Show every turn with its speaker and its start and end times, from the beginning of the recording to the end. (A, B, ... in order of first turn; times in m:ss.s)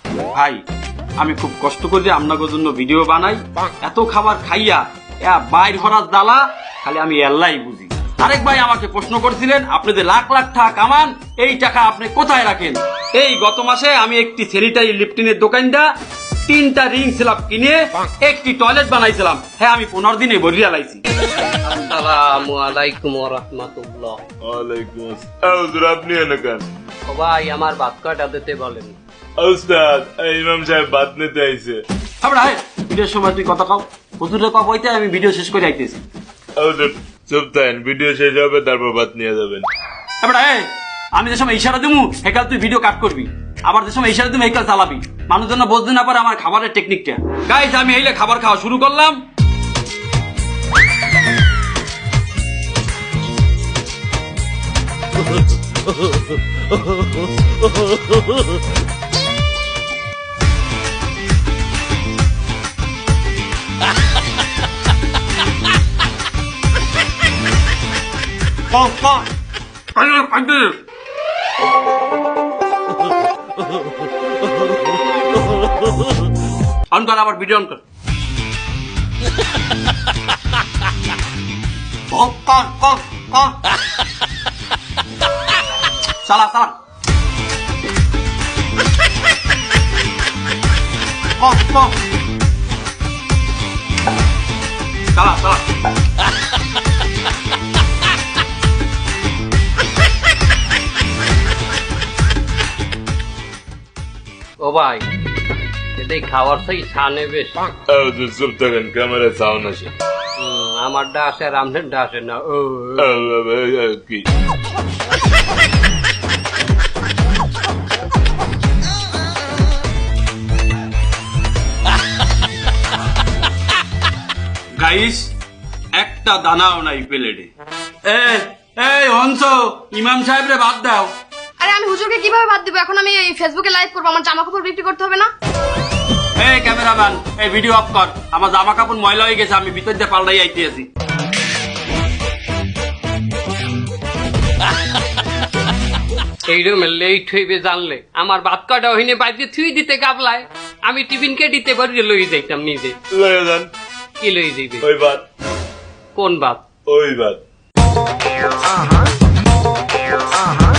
0:00.3-0:00.6 A
0:01.2-0:15.9 A
0:16.5-0:21.0 A
0:21.6-0:24.2 B
0:24.4-0:26.7 C
0:27.1-0:29.0 B
0:29.4-0:31.8 C
0:32.2-0:36.0 A
0:36.6-0:39.6 C
0:40.2-0:49.2 A
1:08.7-1:09.3 A
1:09.9-1:10.8 A
1:16.9-1:17.8 A
1:22.1-1:23.5 A
1:26.2-1:26.7 A
1:31.4-1:31.9 A
1:35.1-1:35.7 A
1:44.6-1:45.1 B
1:46.0-1:47.6 B
1:47.9-1:49.9 C
1:50.4-1:53.1 B
1:53.0-1:54.3 C
2:04.8-2:05.3 A
2:06.0-2:07.5 A
2:08.0-2:11.1 A
2:11.6-2:15.3 D
2:16.4-2:20.9 A
2:26.5-2:33.0 B
2:33.1-2:33.7 C
2:34.2-2:34.9 B
2:34.8-2:35.2 C
2:36.2-2:36.6 B
2:36.9-2:37.4 C